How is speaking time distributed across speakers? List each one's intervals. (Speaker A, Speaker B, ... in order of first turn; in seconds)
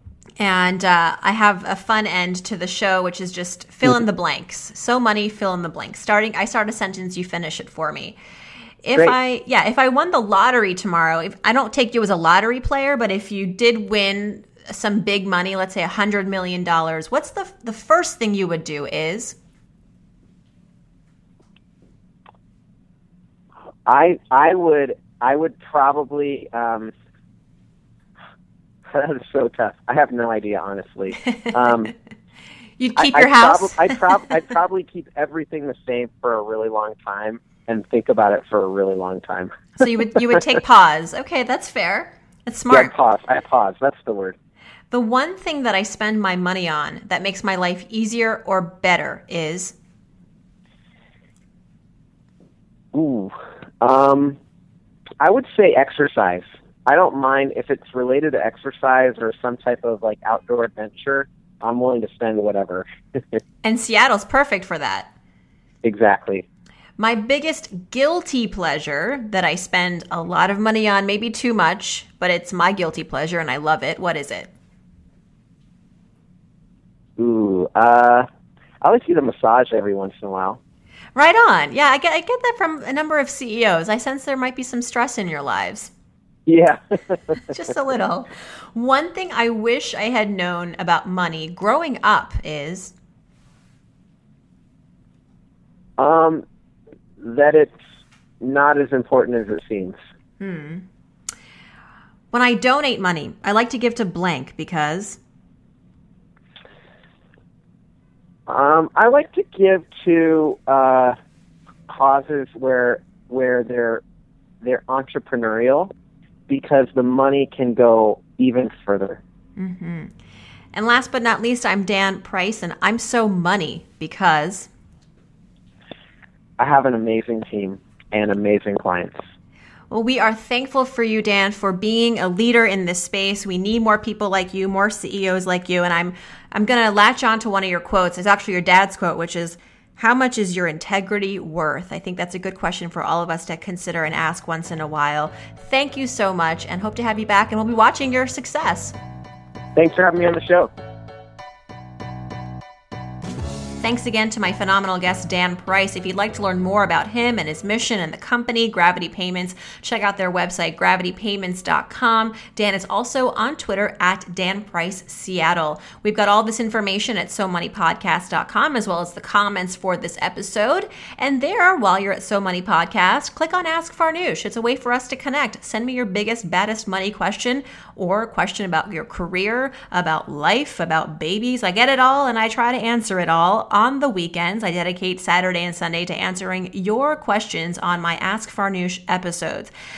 Speaker A: 0.4-8.2, 8.8-19.4, 32.8-34.0, 39.8-42.9, 44.9-49.7, 63.6-65.1, 67.0-74.5, 81.1-85.9, 87.5-92.9, 100.4-100.8, 102.3-105.2, 119.6-120.1, 120.7-124.7, 129.9-148.9, 153.8-189.7
Speaker B: 23.9-26.9, 28.9-31.9, 33.0-39.6, 42.7-44.4, 52.9-54.4, 55.2-63.4, 65.8-66.4, 77.2-78.2, 78.8-80.6, 86.5-87.4, 96.0-96.4, 97.2-97.8, 98.4-100.0, 108.5-111.2, 111.9-114.0, 114.6-115.9, 116.5-119.2, 126.6-129.2, 149.7-150.7